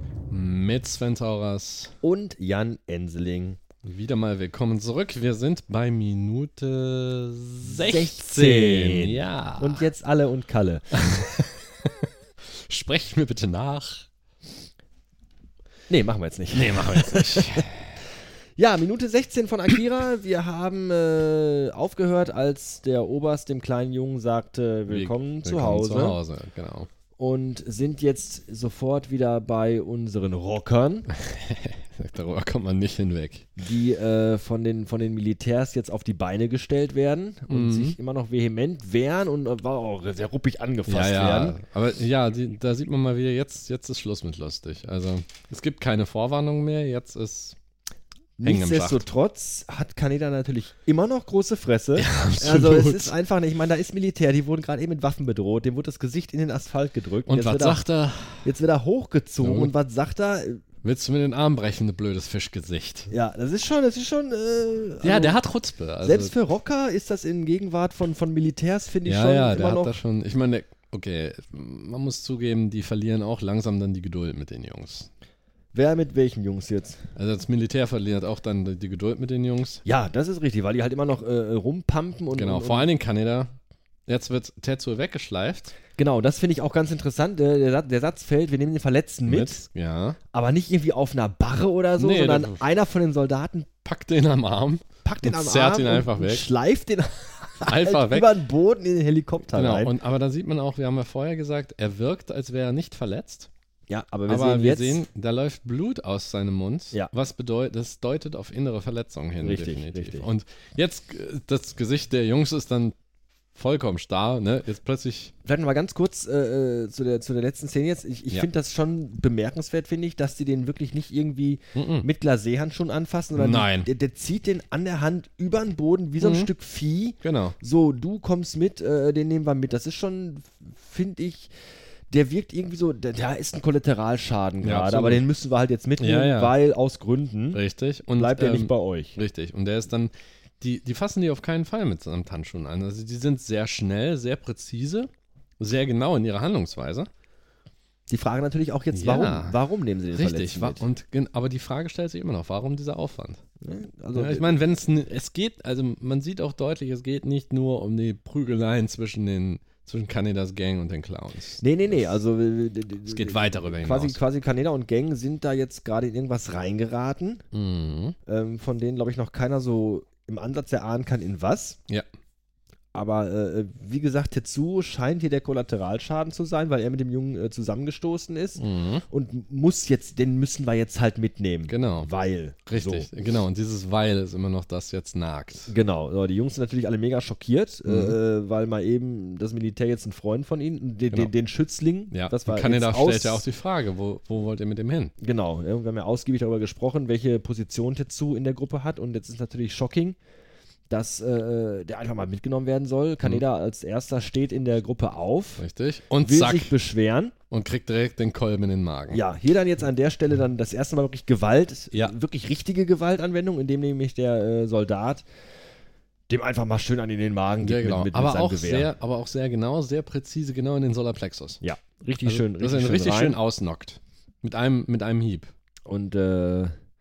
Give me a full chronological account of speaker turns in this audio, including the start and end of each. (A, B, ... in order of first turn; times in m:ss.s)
0:00.3-0:01.9 A
0:02.0-0:03.6 B
0:03.8-0:09.9 A
0:07.6-0:11.0 B
0:10.9-0:14.1 A
0:15.9-0:17.7 B
0:16.5-0:18.0 A
0:18.6-0:26.2 B
0:24.9-0:26.9 A
0:27.2-0:31.1 B
0:31.1-0:33.6 A
0:33.6-0:41.6 B
0:37.5-0:38.0 A
0:40.8-0:47.6 A
0:48.4-0:57.8 B
0:48.4-0:49.0 A
0:52.0-0:53.1 A
0:57.3-0:58.5 A
0:58.4-1:00.6 B
0:59.4-0:59.7 A
1:00.8-1:03.1 A
1:03.1-1:05.4 B
1:05.0-1:06.3 A
1:06.0-1:10.0 B
1:09.0-1:15.1 A
1:15.7-1:17.0 B
1:17.1-1:19.8 A
1:19.8-1:22.9 B
1:22.3-1:23.5 A
1:24.1-1:25.7 A
1:26.0-1:29.6 B
1:29.3-1:30.2 A
1:30.3-1:33.7 B
1:32.0-1:32.6 A
1:33.8-1:36.4 A
1:35.0-1:39.9 B
1:37.6-1:38.3 A
1:39.5-1:43.5 A
1:43.9-1:45.0 B
1:44.3-1:52.9 A
1:49.4-1:50.3 B
1:53.5-1:55.3 A
1:55.4-2:11.5 B
2:01.7-2:02.1 A
2:03.4-2:03.9 A
2:06.2-2:06.5 A
2:07.2-2:07.6 A
2:12.1-2:17.6 B
2:14.6-2:15.2 A
2:16.0-2:16.6 A
2:17.5-2:25.1 A
2:18.1-2:19.2 B
2:25.6-2:27.1 A
2:28.1-2:30.9 B
2:28.9-2:29.6 A
2:30.1-2:33.4 A
2:33.6-2:34.5 B
2:34.1-2:42.1 A
2:41.6-2:47.4 B
2:43.0-2:44.2 A
2:47.5-2:48.2 A
2:48.2-2:51.8 B
2:52.9-3:03.1 B
2:58.6-2:59.0 A
3:01.7-3:02.1 A
3:02.7-3:05.7 A
3:05.7-3:13.4 B
3:07.8-3:08.2 A
3:12.1-3:15.1 A
3:15.2-3:20.2 B
3:20.9-3:25.6 B
3:25.6-3:26.7 A
3:26.2-3:27.3 B
3:27.5-3:29.2 A
3:29.1-3:35.2 B
3:36.3-3:38.9 B
3:37.6-3:41.6 A
3:41.6-3:43.4 B
3:42.2-3:45.5 A
3:45.9-3:46.7 B